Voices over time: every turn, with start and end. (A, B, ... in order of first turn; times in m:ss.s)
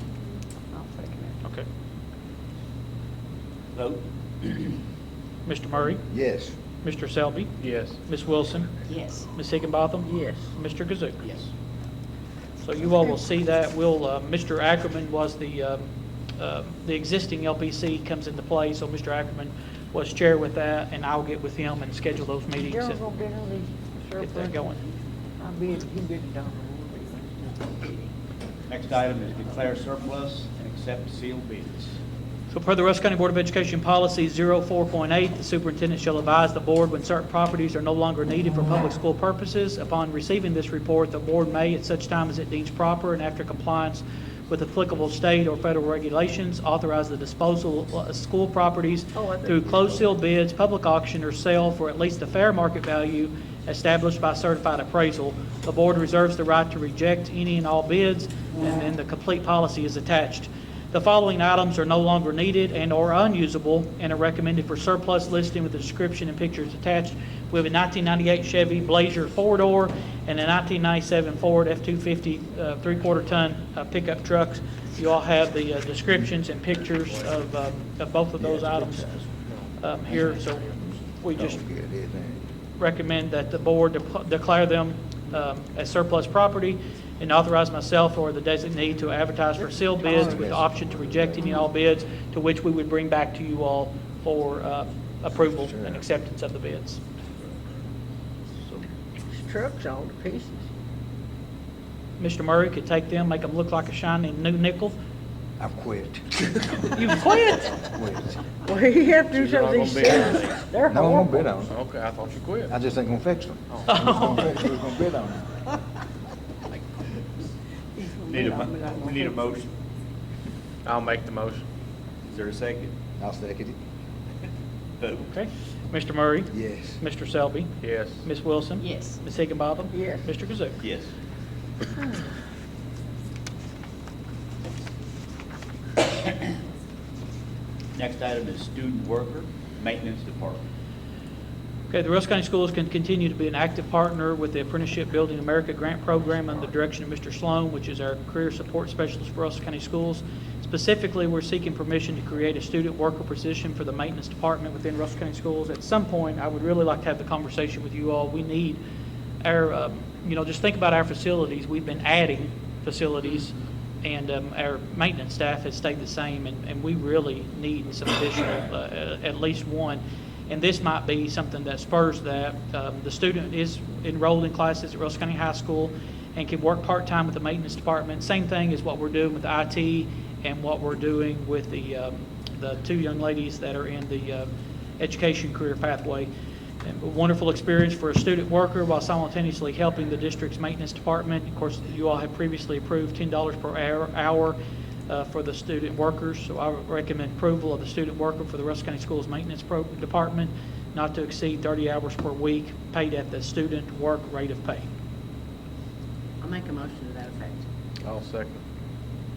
0:00.7-0:01.4 A
0:03.7-0:04.8 B
0:05.4-0:06.1 C
0:06.1-0:06.6 D
0:06.8-0:11.2 C
0:07.6-0:08.0 E
0:08.9-0:09.2 F
0:10.0-0:10.5 A
0:11.2-0:11.5 B
0:12.6-0:23.0 C
0:22.6-0:24.7 A
0:24.2-0:24.8 C
0:25.4-0:28.0 A
0:28.7-0:32.0 B
0:32.5-1:19.2 C
0:49.2-0:49.9 A
1:18.4-1:19.0 D
1:19.8-1:21.6 C
1:21.3-1:22.5 D
1:22.8-1:37.0 C
1:29.8-1:30.3 A
1:30.1-1:31.6 D
1:35.5-1:36.0 D
1:39.3-1:40.7 A
1:42.2-1:45.0 C
1:45.6-1:47.2 D
1:46.9-1:47.9 C
1:47.9-1:48.4 D
1:48.6-1:51.7 A
1:49.3-1:50.6 E
1:50.8-1:51.8 D
1:51.7-1:52.7 E
1:52.7-1:55.5 D
1:53.7-1:54.0 E
1:53.8-1:54.6 C
1:58.0-1:59.2 A
1:58.2-1:59.7 B
2:00.8-2:01.7 E
2:02.3-2:02.9 B
2:03.2-2:03.8 D
2:05.2-2:10.8 C
2:06.5-2:07.0 D
2:07.8-2:08.2 E
2:08.8-2:09.2 F
2:09.9-2:10.3 A
2:10.8-2:11.1 B
2:17.9-2:20.6 B
2:21.9-2:38.8 C
2:39.4-3:06.3 C
3:06.8-3:24.9 C
3:26.4-3:27.6 F
3:28.0-3:28.6 E